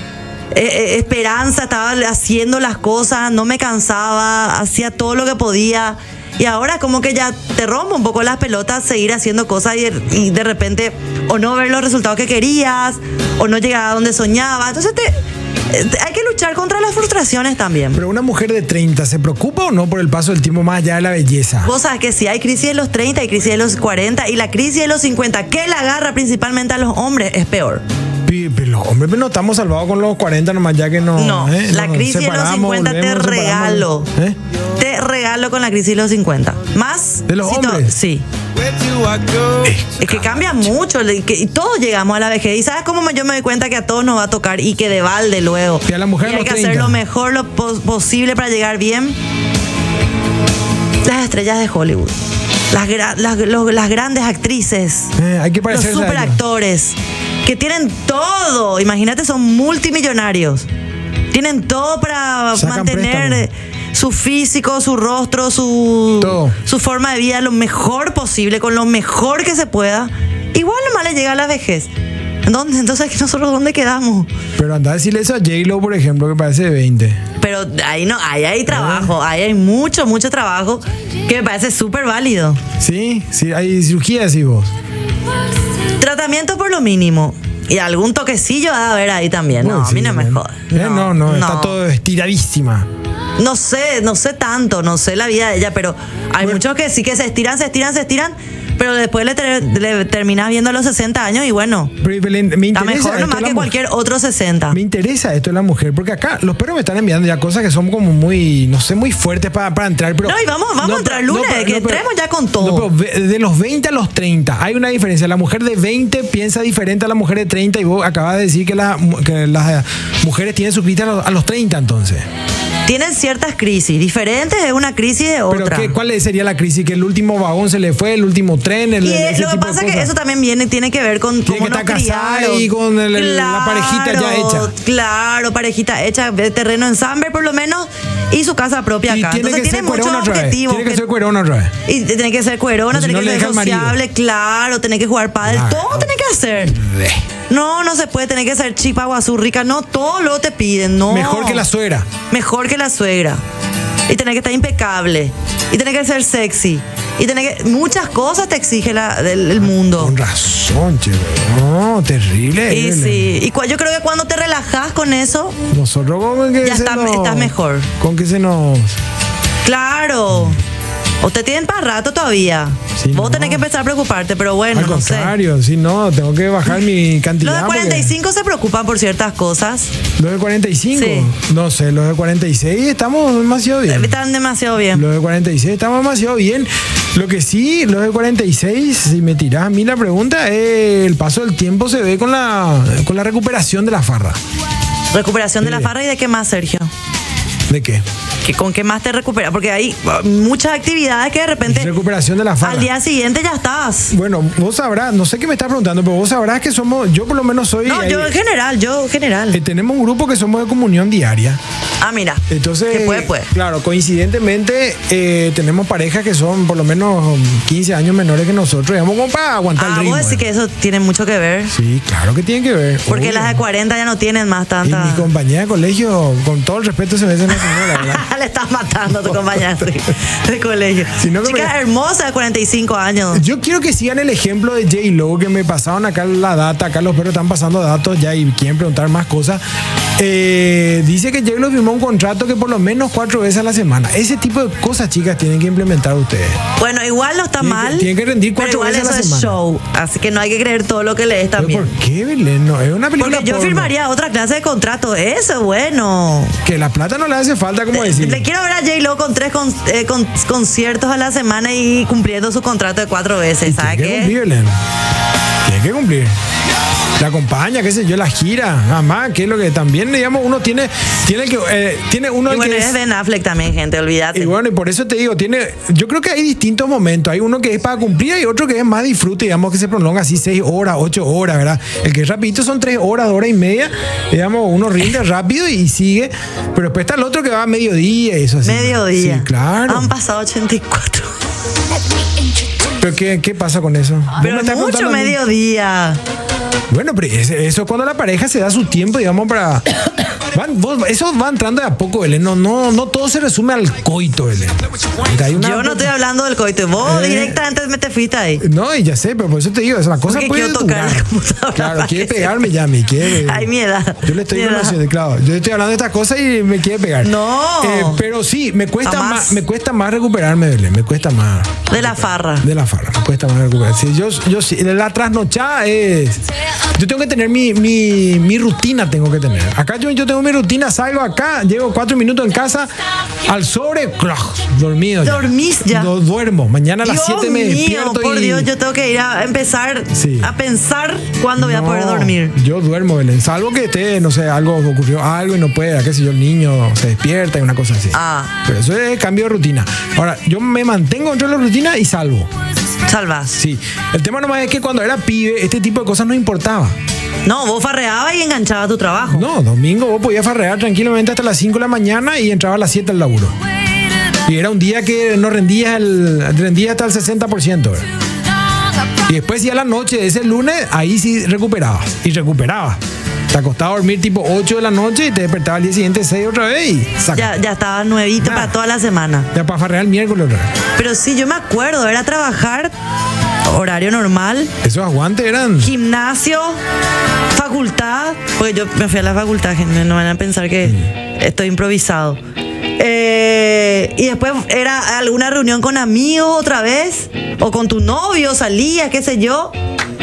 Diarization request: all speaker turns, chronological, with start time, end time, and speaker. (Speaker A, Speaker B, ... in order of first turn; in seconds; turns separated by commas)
Speaker A: 0.5-15.2, Speaker A: 15.7-18.0, Speaker B: 17.9-21.7, Speaker A: 21.6-27.8, Speaker B: 28.2-34.4, Speaker A: 31.1-34.1, Speaker A: 34.8-38.2, Speaker B: 37.3-37.9, Speaker B: 39.5-40.6, Speaker A: 40.0-49.2, Speaker B: 45.9-47.0, Speaker A: 51.0-52.2, Speaker A: 52.7-55.1, Speaker B: 55.1-56.4, Speaker A: 55.7-60.7, Speaker A: 61.3-71.9, Speaker B: 62.5-63.5, Speaker B: 66.2-66.6, Speaker A: 72.4-74.3, Speaker B: 74.6-77.2, Speaker A: 77.4-82.6, Speaker B: 78.7-79.1, Speaker B: 82.8-84.7, Speaker A: 86.0-91.8, Speaker B: 89.6-92.9, Speaker A: 93.4-101.9, Speaker B: 102.0-103.7, Speaker A: 102.7-104.8, Speaker B: 104.7-112.0, Speaker A: 110.2-112.9, Speaker B: 112.6-122.2, Speaker A: 122.8-126.0, Speaker B: 125.5-130.1, Speaker A: 129.0-141.0, Speaker B: 131.4-134.7, Speaker B: 139.1-141.7, Speaker A: 141.8-146.8, Speaker B: 142.9-144.0, Speaker B: 145.4-146.1, Speaker B: 146.7-147.2, Speaker A: 147.5-151.7, Speaker B: 151.1-152.1, Speaker A: 152.3-153.4, Speaker A: 154.1-160.2, Speaker B: 160.0-163.3, Speaker A: 162.7-165.6, Speaker B: 165.7-168.9, Speaker A: 166.6-167.9, Speaker A: 169.6-170.6, Speaker A: 171.2-175.3, Speaker B: 172.9-173.6, Speaker B: 174.7-178.1, Speaker A: 177.4-179.9, Speaker B: 180.2-184.2, Speaker A: 180.9-181.3, Speaker A: 183.9-185.1, Speaker B: 184.9-194.4, Speaker A: 195.1-196.9, Speaker B: 195.6-195.9, Speaker B: 197.7-198.0, Speaker A: 198.4-201.9, Speaker B: 201.7-202.9, Speaker A: 202.6-204.1, Speaker B: 204.1-208.3, Speaker A: 207.8-209.6, Speaker B: 209.5-211.6, Speaker A: 212.0-213.5, Speaker B: 212.5-220.4, Speaker A: 219.8-221.7, Speaker B: 221.7-223.6, Speaker A: 223.1-225.3, Speaker B: 224.8-228.2, Speaker A: 227.5-233.4, Speaker B: 229.2-229.8, Speaker B: 231.1-231.7, Speaker B: 233.3-239.6, Speaker B: 240.2-246.6, Speaker A: 246.8-251.9, Speaker B: 247.6-249.6, Speaker B: 251.6-253.9, Speaker A: 253.2-256.6, Speaker B: 256.6-258.4, Speaker A: 257.9-264.3, Speaker B: 263.6-264.8, Speaker B: 265.6-266.3, Speaker B: 267.2-272.9, Speaker A: 272.5-274.5, Speaker B: 274.3-290.1, Speaker A: 288.6-291.4, Speaker B: 293.0-295.4, Speaker A: 294.4-296.2, Speaker B: 296.9-299.9, Speaker B: 300.5-306.1, Speaker A: 305.6-308.6, Speaker B: 307.0-307.6, Speaker B: 308.6-313.7, Speaker A: 310.3-312.7, Speaker A: 313.2-315.0, Speaker B: 314.2-326.4, Speaker A: 317.2-318.2, Speaker A: 319.0-319.6, Speaker A: 321.9-322.7, Speaker B: 326.9-332.9, Speaker B: 333.4-338.7, Speaker A: 335.2-336.1, Speaker A: 337.0-342.5, Speaker B: 340.1-340.5, Speaker B: 341.6-352.5, Speaker A: 348.1-348.6, Speaker A: 353.1-353.6, Speaker B: 353.6-356.9, Speaker A: 357.4-359.4, Speaker B: 359.3-363.5, Speaker B: 364.4-368.1, Speaker B: 369.2-373.0, Speaker B: 373.5-377.5, Speaker A: 377.3-379.5, Speaker B: 378.4-378.7, Speaker B: 379.5-380.7, Speaker A: 380.9-382.9, Speaker A: 383.6-384.7, Speaker B: 384.8-385.9, Speaker A: 385.8-386.8, Speaker A: 387.5-392.4, Speaker A: 393.0-399.7